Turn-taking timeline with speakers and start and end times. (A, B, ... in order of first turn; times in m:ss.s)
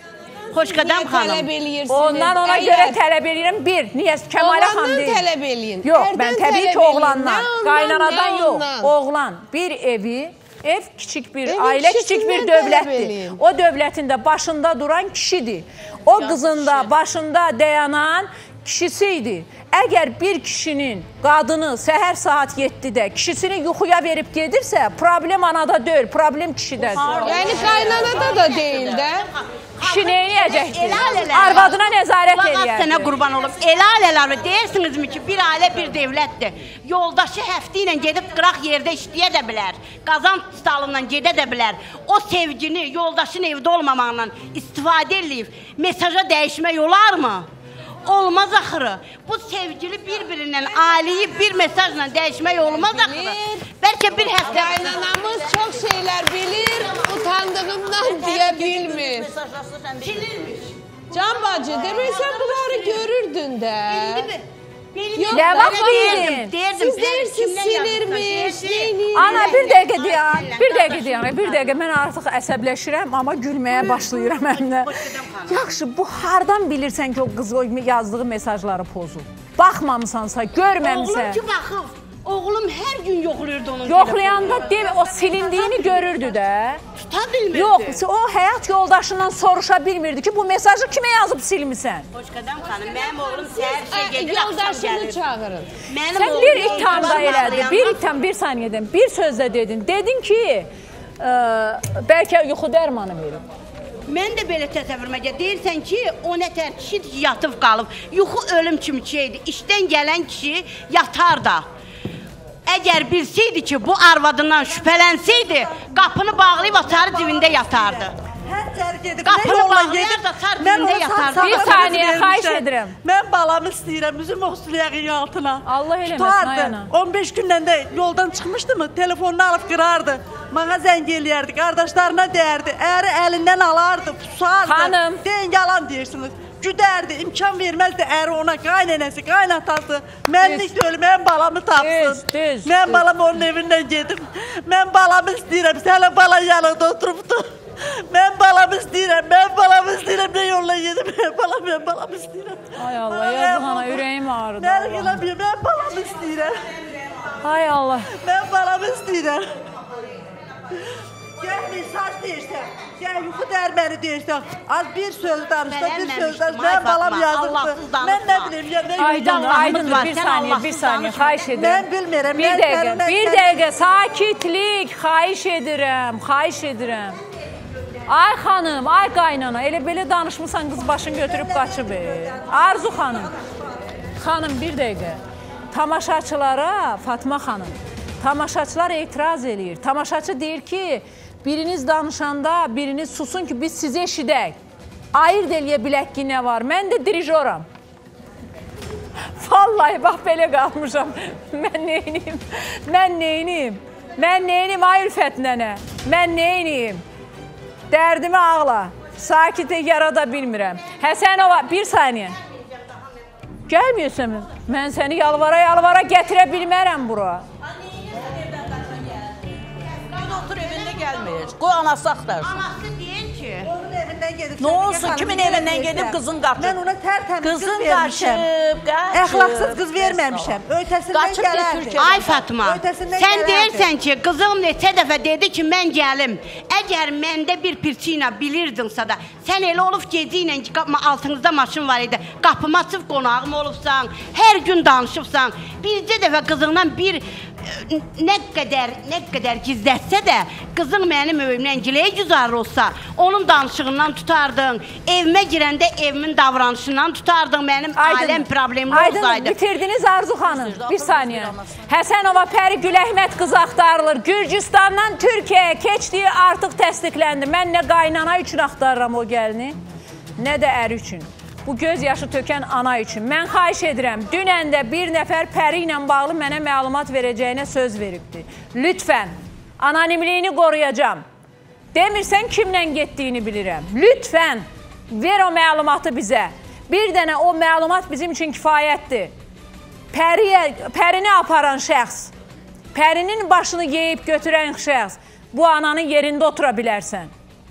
0:00.5-0:01.5 A
0:00.7-0:03.0 B
0:01.9-0:05.3 C
0:04.4-0:08.9 B
0:05.8-0:27.5 C
0:11.5-0:13.4 B
0:26.8-0:28.9 D
0:27.0-0:47.5 A
0:27.2-0:29.3 B
0:29.8-0:33.2 C
0:48.0-0:54.9 A
0:52.8-0:53.4 B
0:54.2-0:55.8 D
0:54.4-0:59.3 B
0:57.9-1:00.6 D
1:00.0-1:03.0 A
1:01.1-1:04.3 B
1:01.7-1:02.2 D
1:03.9-1:11.8 A
1:05.2-1:09.6 B
1:05.3-1:06.6 C
1:09.1-1:15.0 C
1:13.7-1:15.7 A
1:15.5-1:21.4 C
1:20.8-1:26.4 A
1:23.8-1:26.8 C
1:26.9-1:28.0 A
1:27.5-1:32.1 C
1:32.1-1:35.2 A
1:33.5-1:35.7 B
1:35.9-1:38.0 A
1:36.1-1:40.7 C
1:41.2-1:43.4 C
1:44.1-1:51.7 A
1:52.7-1:58.2 A
1:54.5-2:27.5 E
1:59.2-2:02.0 A
2:01.4-2:03.0 C
2:05.7-2:06.9 C
2:14.6-2:15.2 C
2:20.4-2:20.7 C
2:21.8-2:23.0 C
2:28.1-2:34.0 E
2:32.8-2:35.2 C
2:34.6-2:36.6 E
2:37.4-2:38.1 C
2:38.1-2:39.5 E
2:41.4-2:50.1 E
2:45.6-2:51.1 A
2:49.0-2:57.2 C
2:51.5-2:53.6 E
2:58.1-3:03.3 C
3:04.2-3:05.2 C
3:05.7-3:14.6 C
3:15.1-3:17.7 C
3:19.4-3:27.0 C
3:27.9-3:32.4 C
3:33.7-3:37.4 C
3:40.1-3:42.6 D
3:40.2-3:41.2 A
3:42.4-3:43.7 A
3:43.7-3:45.9 E
3:44.6-3:46.8 D
3:45.0-3:46.2 C
3:46.6-3:48.5 E
3:47.4-3:52.4 D
3:49.1-3:53.9 E
3:52.0-4:19.6 A
4:18.0-4:29.8 C
4:20.4-4:21.9 D
4:30.4-4:41.2 C
4:41.9-4:49.3 C
4:50.1-4:52.3 C
4:52.9-4:57.3 C